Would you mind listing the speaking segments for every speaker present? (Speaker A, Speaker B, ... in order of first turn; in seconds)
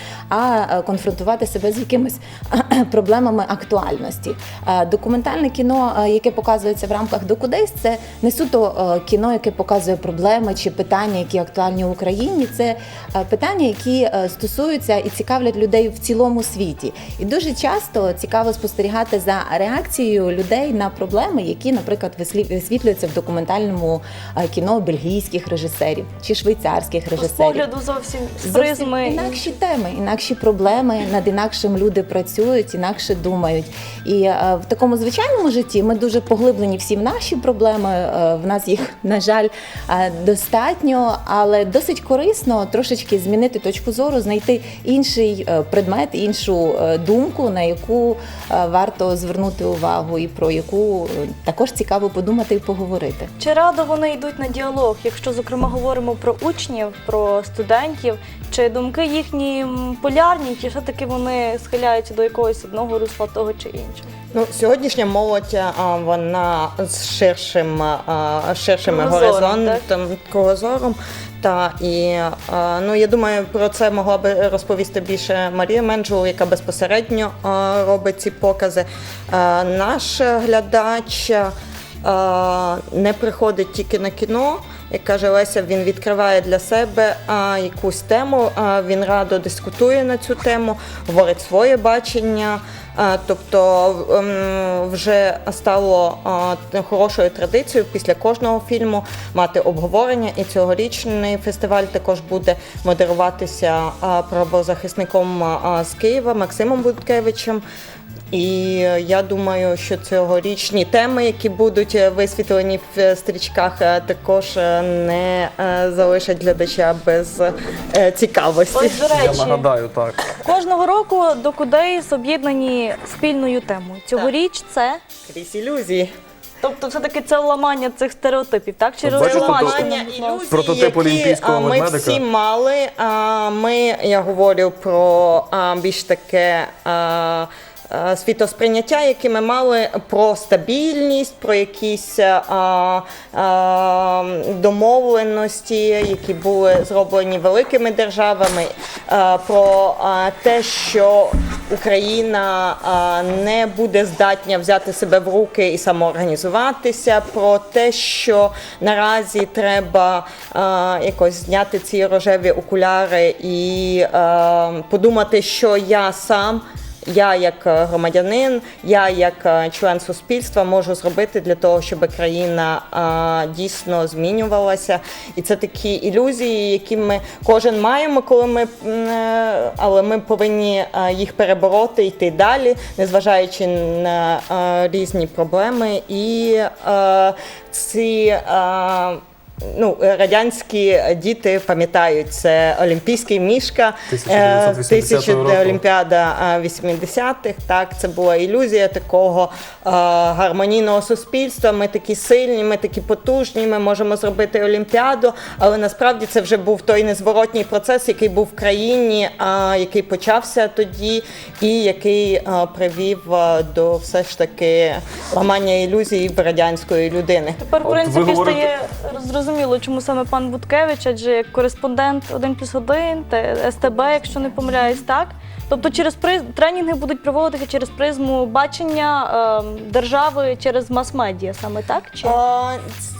Speaker A: 0.3-27.7, 28.4-53.3
Speaker B: 27.1-29.4, 53.4-64.1, 68.8-69.8, 118.7-119.7, 120.4-125.0, 126.6-130.6, 217.6-232.4
Speaker C: 64.3-81.5, 82.0-107.6, 108.3-119.5, 125.3-126.1, 129.1-217.6, 232.2-232.8
Speaker D: 119.2-120.2, 129.0-129.8, 130.5-132.2, 194.1-195.8, 217.8-218.7